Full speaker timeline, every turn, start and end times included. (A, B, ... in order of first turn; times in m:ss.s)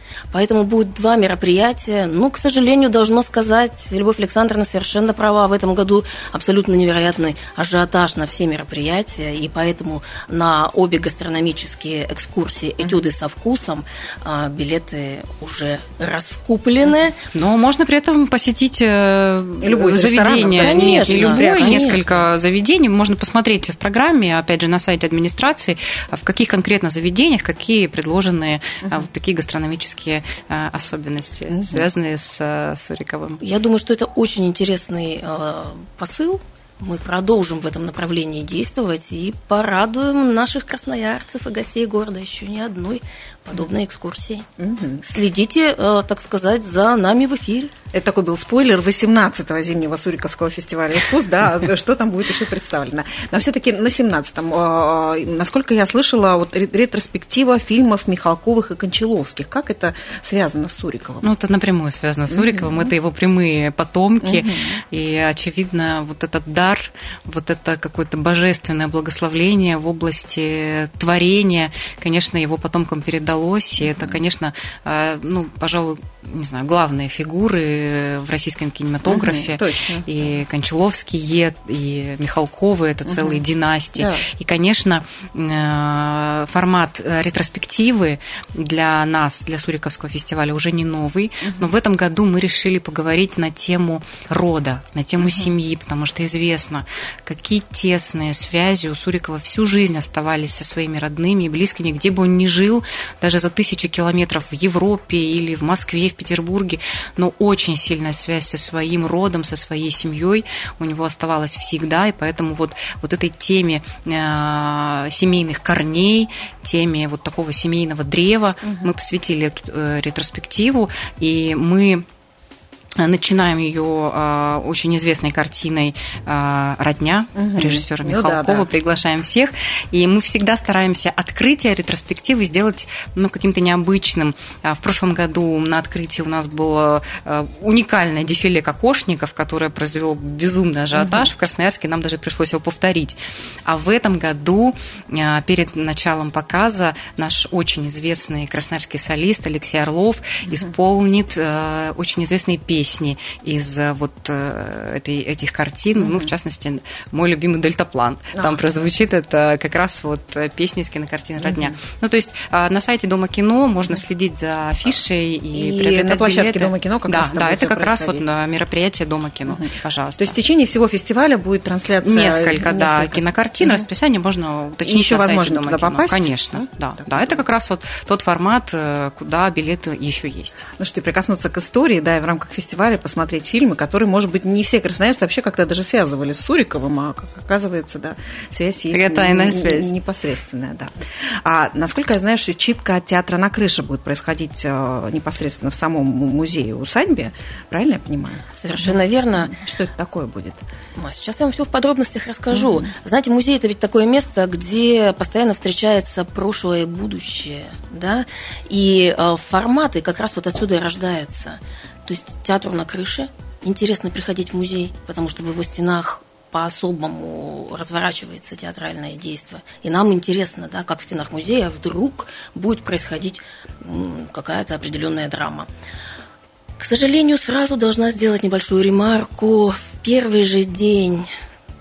0:00.3-0:17.2 A
0:17.3-0:33.4 B
0:19.6-0:22.2 C
0:20.5-0:22.0 A
0:31.5-0:31.8 C
0:33.4-0:44.5 A
0:44.6-0:45.0 C
0:45.0-0:47.7 A
0:47.9-1:01.2 C
1:01.2-2:02.0 B
1:02.4-1:02.8 C
1:04.2-1:04.8 C
1:19.0-1:20.3 C
1:23.1-1:23.4 C
1:24.0-1:24.3 C
2:03.0-2:50.4 B
2:07.3-2:08.7 C
2:21.0-2:21.2 C
2:41.4-2:41.7 C
2:45.5-2:48.2 C
2:50.2-2:53.2 C
2:52.0-3:00.6 B
2:54.8-2:57.3 C
3:00.8-3:20.6 C
3:08.9-3:09.9 B
3:18.6-3:19.5 A
3:21.0-3:45.7 A
3:22.5-3:22.8 C
3:46.8-3:51.3 A